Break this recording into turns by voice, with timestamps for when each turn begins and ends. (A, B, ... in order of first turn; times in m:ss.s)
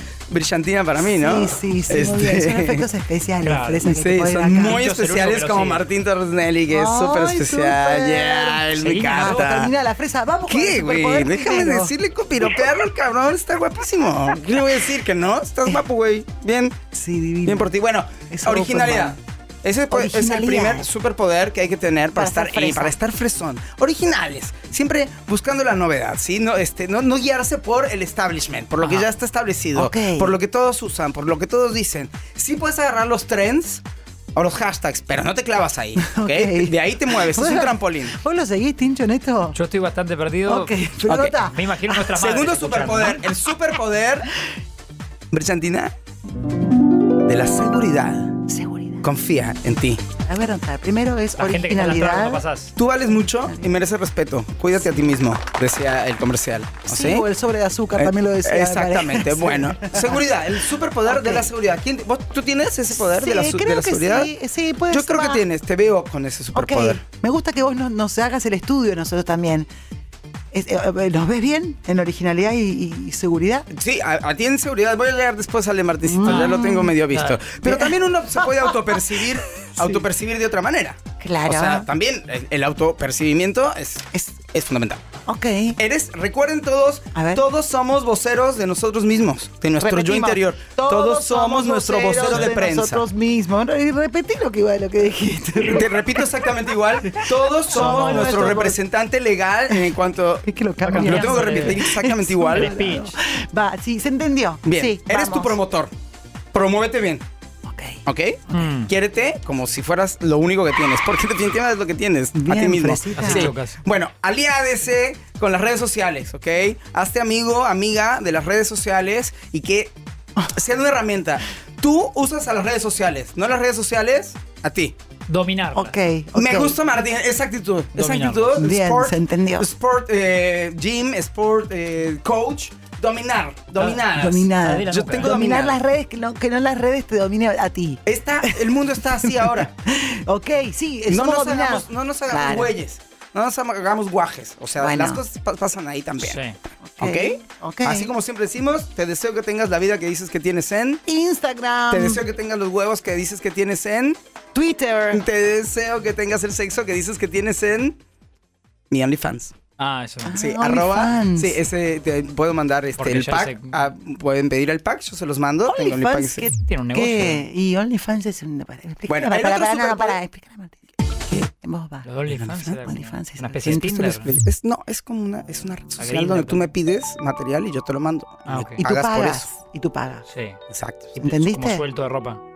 0:00.3-0:02.9 A
0:01.0-0:04.9 B
0:03.4-0:04.0 C
0:03.8-0:09.7 A
0:04.5-0:05.8 C
0:06.7-0:11.9 B
0:08.8-0:09.6 C
0:10.5-0:16.8 A
0:16.9-0:17.7 B
0:17.4-0:33.8 A
0:18.3-0:19.2 B
0:19.9-0:20.9 B
0:22.2-0:23.0 B
0:28.8-0:29.1 C
0:29.8-0:30.4 B
0:34.4-0:38.1 A
0:36.0-0:39.6 B
0:39.6-0:40.7 C
0:40.4-0:42.1 B
0:41.1-0:41.4 A
0:41.4-0:43.2 C
0:42.2-0:44.3 A
0:45.3-0:45.9 A
0:47.3-0:48.4 A
0:48.5-0:49.1 B
0:49.0-0:50.0 A
0:50.2-0:52.4 B
0:51.4-0:52.7 C
0:52.8-0:57.3 A
0:53.4-0:53.8 B
0:56.9-1:00.3 B
0:58.0-1:04.3 A
1:01.0-1:01.5 B
1:02.9-1:05.4 B
1:04.9-1:07.0 A
1:06.6-1:09.7 B
1:10.5-1:13.7 B
1:13.7-1:25.0 A
1:16.0-1:17.0 B
1:16.2-1:17.4 C
1:17.6-1:19.2 B
1:19.8-1:20.0 B
1:21.2-1:21.9 B
1:24.1-1:24.4 B
1:25.3-1:25.8 B
1:25.8-1:33.0 A
1:27.2-1:27.4 B
1:29.8-1:36.3 B
1:32.3-1:32.6 C
1:35.6-1:42.7 A
1:37.0-1:38.8 B
1:37.7-1:38.6 C
1:40.5-1:45.6 B
1:40.8-1:41.8 C
1:42.5-1:43.2 C
1:44.6-1:45.9 A
1:46.5-1:47.2 A
1:47.6-1:48.0 B
1:48.1-1:59.9 A
1:48.5-1:48.9 C
1:52.4-1:53.5 B
1:53.1-1:53.8 C
2:00.5-2:05.0 A
2:05.3-2:06.0 C
2:05.7-2:06.8 B
2:06.4-2:15.8 A
2:08.0-2:08.6 C
2:08.6-2:09.7 B
2:13.8-2:15.4 C
2:14.1-2:22.8 B
2:18.1-2:19.7 A
2:21.1-2:26.4 A
2:24.8-2:25.2 B
2:26.2-2:26.6 C
2:26.8-2:28.1 B
2:27.0-2:31.0 A
2:31.1-2:32.2 B
2:31.9-2:34.2 A
2:34.5-2:35.2 B
2:35.1-2:38.0 A
2:38.9-2:39.6 A
2:39.8-2:40.3 C
2:40.2-2:41.6 B
2:40.3-2:46.5 A
2:43.0-2:43.8 C
2:45.7-2:50.8 B
2:46.6-2:47.4 C
2:49.1-2:50.2 A
2:51.6-2:52.1 B
2:52.0-2:54.3 C
2:52.3-2:52.7 A
2:52.6-2:54.3 B
2:54.2-2:59.5 A
2:56.0-2:56.7 C
2:58.5-2:58.8 C
2:58.8-3:00.3 B
3:00.3-3:00.6 C
3:00.7-3:01.2 A
3:01.2-3:02.4 C
3:01.2-3:01.8 B